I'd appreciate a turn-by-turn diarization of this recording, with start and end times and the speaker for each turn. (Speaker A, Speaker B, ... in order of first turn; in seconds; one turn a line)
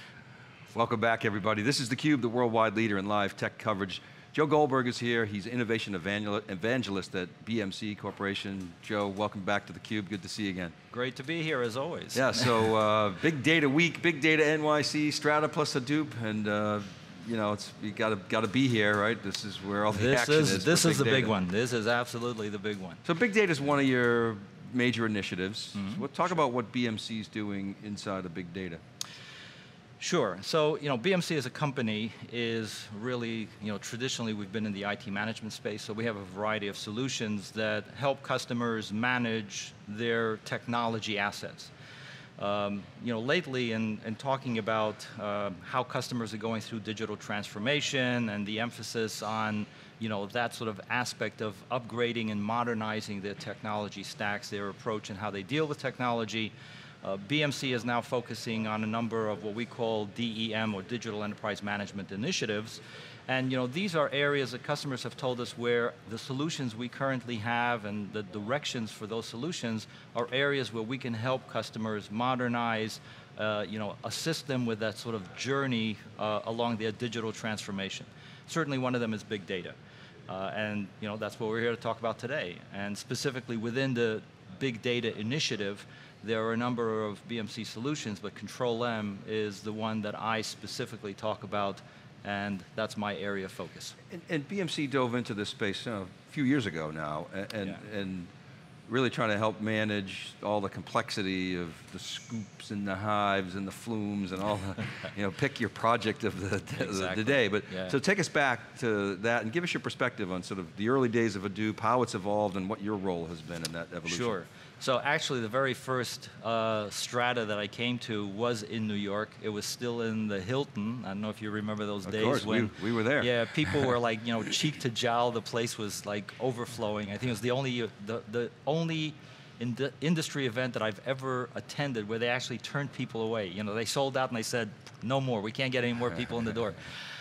Speaker A: 0.7-10.7
Speaker B: 10.9-12.3
Speaker A: 12.1-21.3
Speaker B: 19.9-23.0
Speaker A: 23.1-28.8
Speaker B: 25.8-26.0
Speaker B: 30.0-41.7
Speaker B: 42.4-79.8
Speaker B: 80.3-94.0
Speaker A: 94.1-98.3
Speaker A: 98.9-114.4
Speaker B: 106.8-108.0
Speaker B: 114.1-136.9
Speaker A: 122.1-123.9